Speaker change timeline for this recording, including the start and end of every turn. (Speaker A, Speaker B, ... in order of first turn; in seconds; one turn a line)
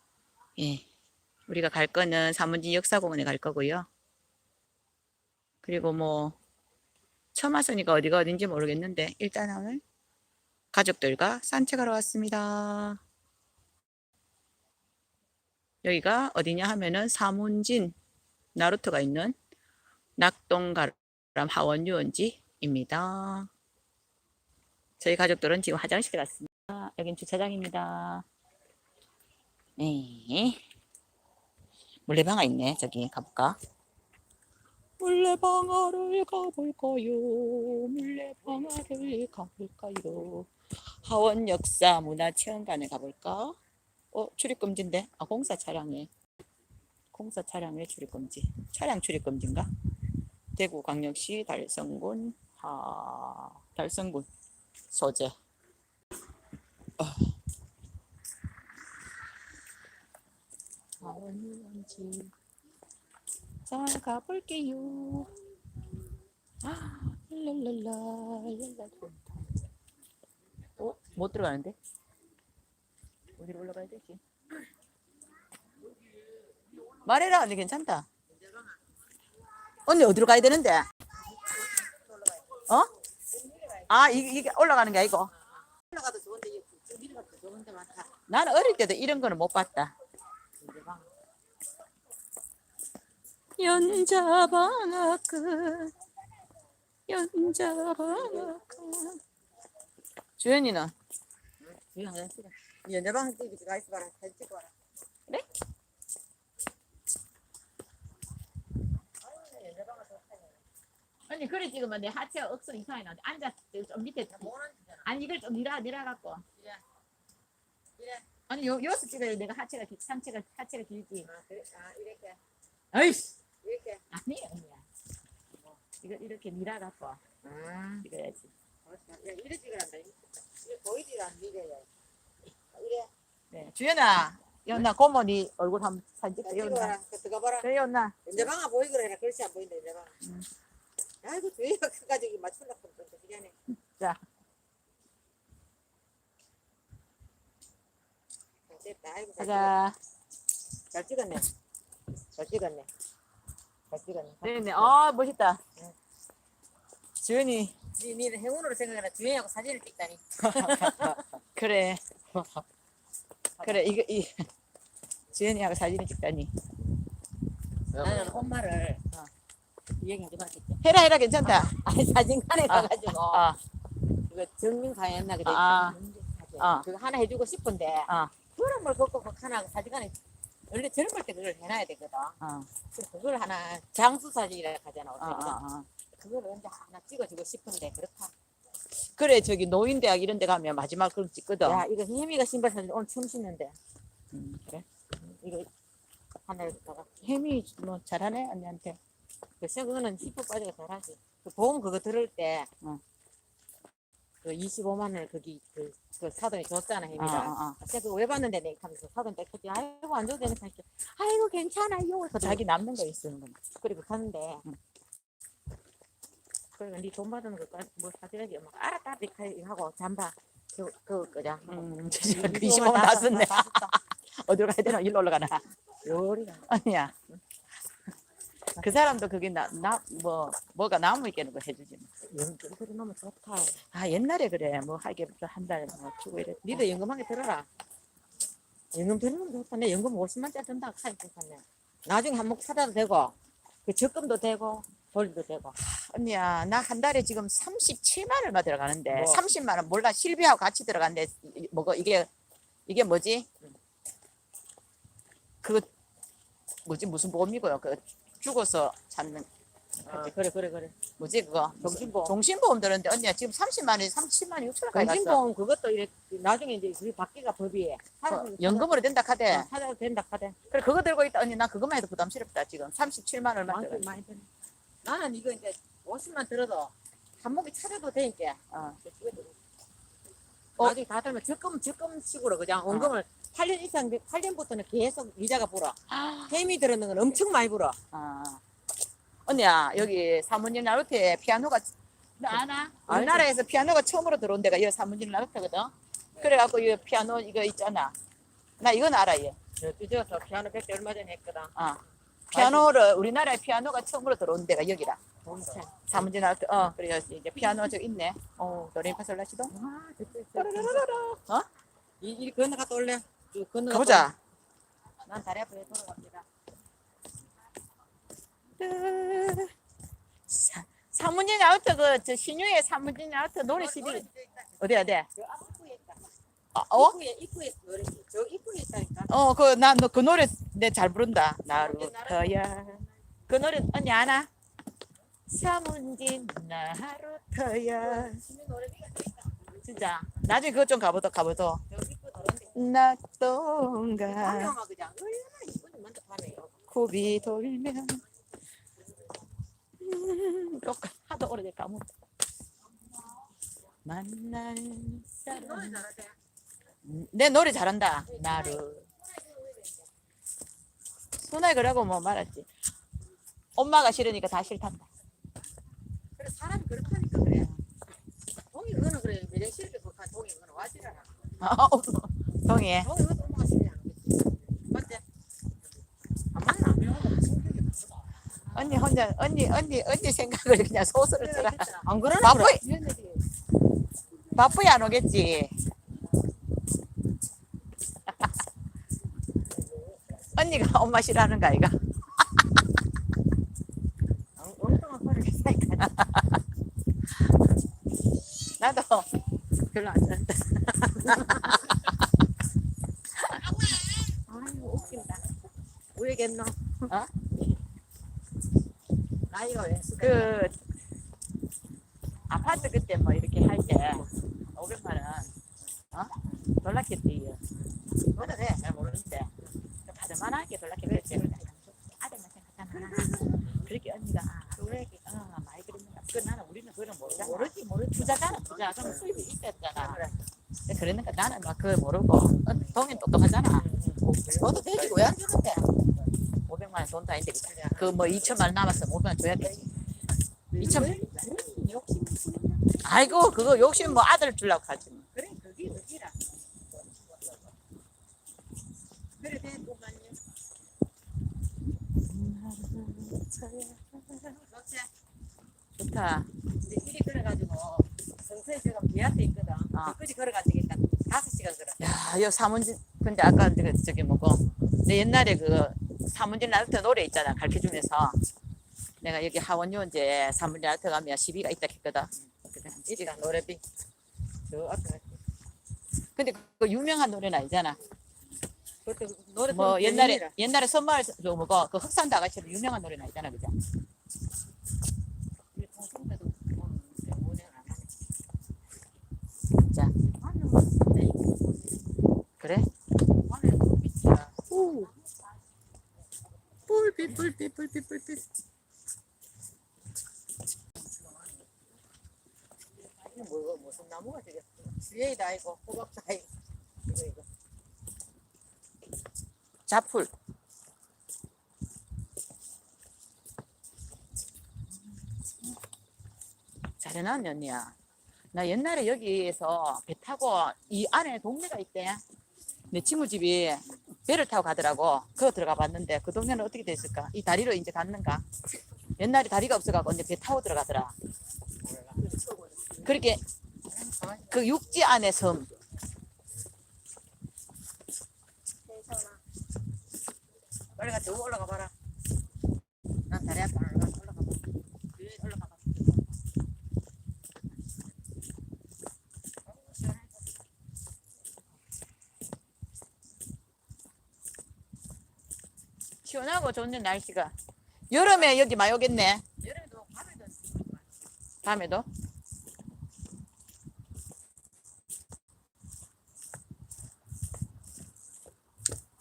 Speaker A: 0.6-0.8
Speaker A: 1.5-3.9
Speaker A: 5.6-6.4
Speaker A: 7.3-9.8
Speaker A: 10.7-13.0
Speaker A: 15.8-17.9
Speaker A: 18.6-19.4
Speaker A: 20.2-23.5
Speaker A: 25.0-28.3
Speaker A: 29.8-30.6
Speaker A: 32.1-33.6
Speaker A: 35.0-43.6
Speaker A: 44.1-46.1
Speaker A: 47.1-49.7
Speaker A: 50.5-54.3
Speaker A: 54.9-55.3
Speaker A: 57.0-57.3
Speaker A: 61.0-62.3
Speaker A: 63.7-65.3
Speaker A: 66.6-69.5
Speaker A: 70.8-71.8
Speaker A: 73.4-74.2
Speaker A: 77.0-78.1
Speaker B: 78.4-78.8
Speaker A: 79.9-80.9
Speaker B: 81.2-82.6
Speaker B: 83.3-84.1
Speaker A: 83.9-85.3
Speaker B: 85.7-88.1
Speaker A: 88.3-89.9
Speaker B: 90.6-91.1
Speaker A: 93.6-95.9
Speaker A: 97.1-99.2
Speaker B: 98.2-98.5
Speaker A: 100.4-100.9
Speaker B: 101.6-104.7
Speaker B: 109.2-110.6
Speaker A: 111.3-114.5
Speaker B: 114.3-115.1
Speaker A: 115.0-116.4
Speaker B: 116.6-116.8
Speaker B: 118.0-118.2
Speaker A: 118.5-121.3
Speaker B: 121.2-122.4
Speaker A: 122.9-123.3
Speaker B: 123.6-124.0
Speaker A: 124.1-124.8
Speaker A: 126.0-127.2
Speaker B: 127.4-128.1
Speaker A: 128.0-128.5
Speaker B: 128.8-131.9
Speaker B: 132.7-133.1
Speaker A: 133.5-136.9
Speaker B: 136.4-137.7
Speaker A: 137.6-138.4
Speaker B: 138.2-140.1
Speaker B: 141.2-143.5
Speaker A: 143.7-144.2
Speaker B: 148.7-149.7
Speaker A: 149.4-149.9
Speaker B: 150.9-151.5
Speaker B: 152.3-152.9
Speaker B: 153.9-154.9
Speaker A: 154.4-155.6
Speaker A: 157.2-157.8
Speaker B: 157.9-161.2
Speaker A: 160.4-162.0
Speaker B: 162.3-162.6
Speaker B: 163.6-163.8
Speaker A: 163.6-164.5
Speaker A: 165.3-166.5
Speaker B: 167.9-169.0
Speaker B: 170.0-170.8
Speaker A: 170.8-171.7
Speaker B: 171.4-173.5
Speaker A: 172.7-173.6
Speaker B: 174.3-180.2
Speaker A: 175.4-176.0
Speaker A: 176.6-176.8
Speaker A: 178.1-178.3
Speaker B: 180.7-182.4
Speaker A: 182.4-182.7
Speaker B: 182.9-185.6
Speaker A: 185.2-185.9
Speaker B: 186.1-188.3
Speaker A: 189.1-191.8
Speaker B: 191.6-193.8
Speaker A: 194.3-194.8
Speaker B: 195.1-195.7
Speaker B: 196.4-197.1
Speaker A: 197.2-199.0
Speaker B: 199.6-202.7
Speaker B: 204.4-212.6
Speaker A: 207.2-207.8
Speaker A: 212.4-213.6
Speaker B: 213.8-214.6
Speaker B: 216.8-223.9
Speaker A: 221.7-225.6
Speaker B: 226.0-226.7
Speaker A: 226.7-227.1
Speaker A: 228.8-232.1
Speaker B: 232.2-233.8
Speaker A: 233.9-236.8
Speaker B: 236.6-237.7
Speaker B: 238.9-245.7
Speaker A: 245.8-252.3
Speaker B: 249.1-249.4
Speaker A: 252.9-253.5
Speaker A: 255.6-255.9
Speaker A: 256.9-259.5
Speaker B: 260.1-261.0
Speaker A: 261.2-265.4
Speaker B: 261.8-262.3
Speaker B: 264.9-270.6
Speaker A: 268.3-269.7
Speaker A: 270.7-274.1
Speaker B: 273.7-274.5
Speaker B: 275.0-279.6
Speaker A: 278.7-279.0
Speaker B: 280.8-286.0
Speaker A: 282.9-283.1
Speaker A: 286.1-286.6
Speaker B: 286.5-288.0
Speaker A: 288.1-288.6
Speaker A: 289.5-298.1
Speaker B: 292.5-293.5
Speaker A: 298.8-299.6
Speaker B: 299.8-301.7
Speaker A: 301.8-302.0
Speaker B: 302.5-302.9
Speaker A: 302.5-305.2
Speaker B: 305.4-306.2
Speaker A: 306.1-309.7
Speaker B: 309.7-311.4
Speaker A: 310.6-311.7
Speaker B: 312.2-314.3
Speaker A: 313.9-314.4
Speaker B: 315.2-316.5
Speaker A: 318.8-319.7
Speaker A: 320.5-324.2
Speaker B: 323.7-326.3
Speaker A: 324.8-325.2
Speaker A: 326.8-327.2
Speaker B: 326.9-329.3
Speaker A: 329.3-334.5
Speaker B: 331.7-332.8
Speaker A: 335.5-338.4
Speaker B: 338.0-339.7
Speaker A: 339.8-341.8
Speaker B: 341.9-342.7
Speaker A: 342.7-344.7
Speaker B: 344.2-346.8
Speaker A: 346.9-348.2
Speaker A: 350.0-352.1
Speaker A: 354.1-356.0
Speaker B: 355.5-356.4
Speaker A: 357.1-359.1
Speaker B: 358.3-360.1
Speaker A: 361.4-362.7
Speaker A: 363.8-365.1
Speaker B: 366.4-367.7
Speaker B: 368.7-371.3
Speaker A: 371.6-373.1
Speaker B: 373.0-375.2
Speaker B: 376.5-378.0
Speaker A: 378.7-382.8
Speaker B: 381.4-383.4
Speaker A: 384.5-385.7
Speaker A: 390.6-392.0
Speaker B: 394.6-396.2
Speaker A: 396.1-396.5
Speaker A: 398.7-399.3
Speaker A: 399.9-402.1
Speaker B: 401.1-401.9
Speaker A: 403.4-403.6
Speaker B: 403.6-405.5
Speaker B: 406.1-407.0
Speaker B: 409.5-410.6
Speaker A: 410.2-410.8
Speaker A: 412.5-415.5
Speaker A: 416.1-417.6
Speaker B: 418.4-418.9
Speaker A: 418.4-419.5
Speaker A: 420.1-430.2
Speaker B: 421.1-421.7
Speaker B: 422.9-423.7
Speaker B: 424.8-425.2
Speaker B: 427.3-429.2
Speaker B: 429.9-430.4
Speaker A: 430.9-433.9
Speaker B: 433.7-435.9
Speaker A: 436.7-439.9
Speaker B: 437.7-438.5
Speaker B: 440.7-444.2
Speaker A: 440.8-441.2
Speaker A: 443.0-445.2
Speaker B: 445.4-446.4
Speaker B: 449.4-450.4
Speaker A: 452.2-454.4
Speaker B: 454.6-455.1
Speaker A: 455.9-456.5
Speaker B: 456.8-462.1
Speaker A: 462.0-468.4
Speaker A: 469.2-473.3
Speaker B: 473.1-473.8
Speaker B: 474.7-475.4
Speaker A: 476.4-478.0
Speaker B: 479.1-480.5
Speaker A: 479.7-483.8
Speaker B: 485.7-488.1
Speaker B: 490.2-492.0
Speaker A: 492.6-492.9
Speaker B: 493.4-495.1
Speaker A: 494.7-495.1
Speaker A: 496.9-498.4
Speaker B: 503.2-506.5
Speaker B: 507.1-507.4
Speaker A: 509.9-510.3
Speaker A: 517.0-517.9
Speaker A: 518.5-522.2
Speaker A: 522.9-528.5
Speaker A: 529.2-531.1
Speaker B: 531.9-533.0
Speaker A: 533.0-533.4
Speaker B: 533.9-534.5
Speaker A: 534.5-535.7
Speaker B: 538.9-539.4
Speaker B: 541.0-541.9
Speaker B: 543.3-546.3
Speaker B: 549.7-550.5
Speaker A: 556.2-557.5
Speaker A: 558.1-559.4
Speaker B: 559.6-561.0
Speaker A: 561.6-562.1